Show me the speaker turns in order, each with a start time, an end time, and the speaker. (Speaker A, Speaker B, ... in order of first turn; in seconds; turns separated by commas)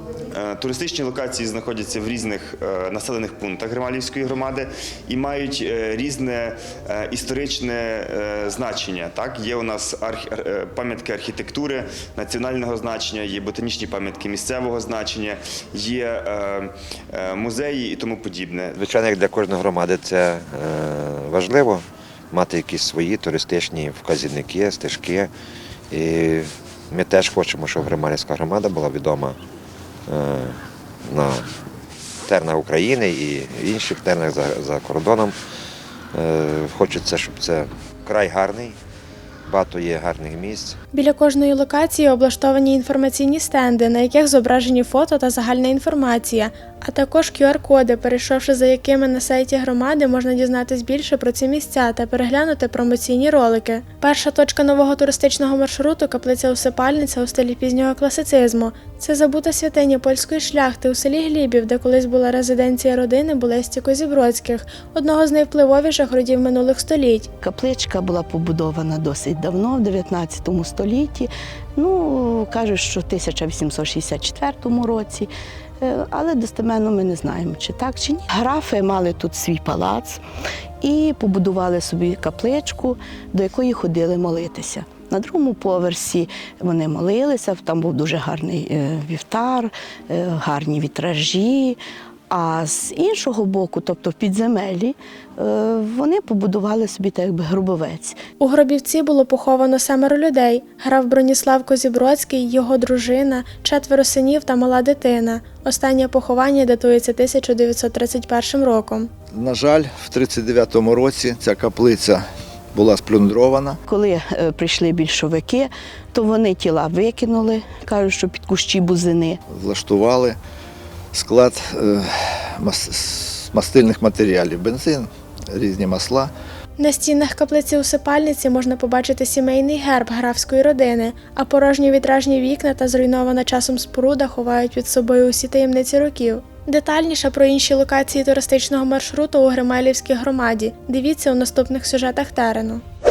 Speaker A: 0.3-18.8, Speaker B: 18.8-25.3, Speaker B: 25.9-29.4, Speaker B: 30.1-31.4, Speaker B: 32.3-35.4, Speaker B: 36.1-38.8, Speaker B: 39.5-40.8, Speaker C: 40.9-67.3, Speaker D: 67.4-75.3, Speaker D: 75.8-80.2, Speaker D: 80.8-91.8, Speaker D: 92.3-98.2, Speaker C: 98.4-109.1, Speaker E: 109.3-113.8, Speaker D: 113.9-119.4, Speaker E: 119.5-120.4, Speaker E: 121.1-126.3, Speaker C: 126.8-142.8